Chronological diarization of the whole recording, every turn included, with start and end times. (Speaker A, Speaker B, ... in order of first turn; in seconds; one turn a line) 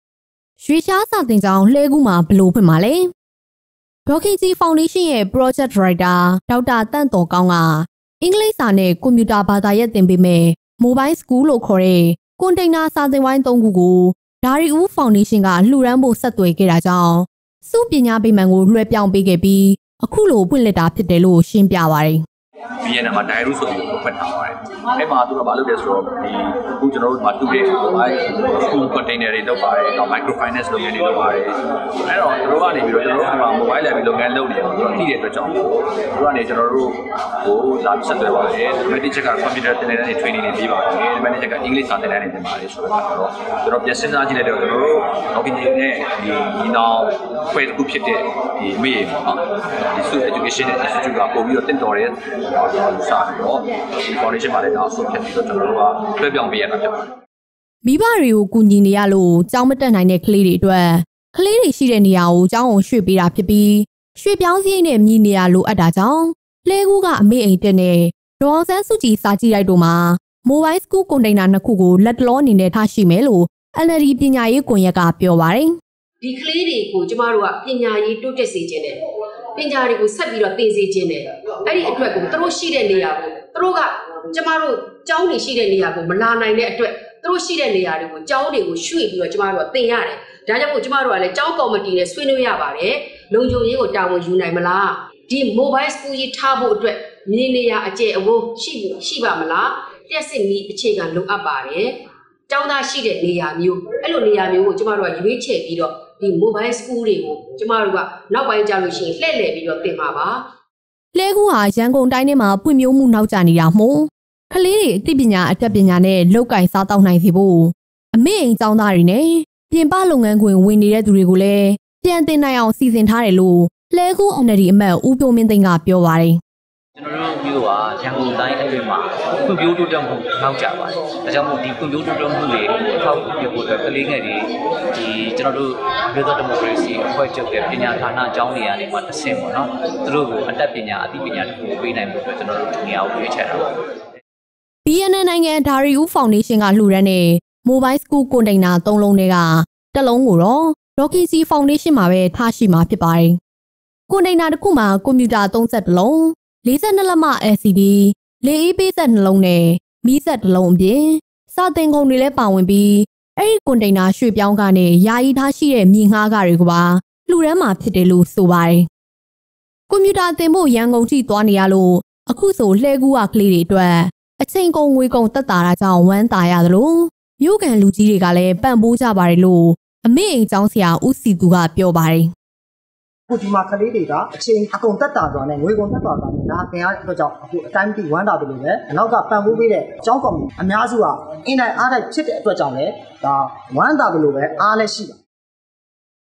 Speaker A: 0.6-3.1
Speaker A: 4.1-22.2
Speaker B: 22.8-57.1
Speaker A: 57.8-75.8
Speaker C: 76.2-79.0
Speaker C: 79.6-102.0
Speaker C: 102.5-110.4
Speaker A: 111.1-126.4
Speaker D: 127.0-143.7
Speaker A: 144.9-153.4
Speaker A: 154.1-168.9
Speaker A: 169.9-182.3
Speaker E: 183.3-195.2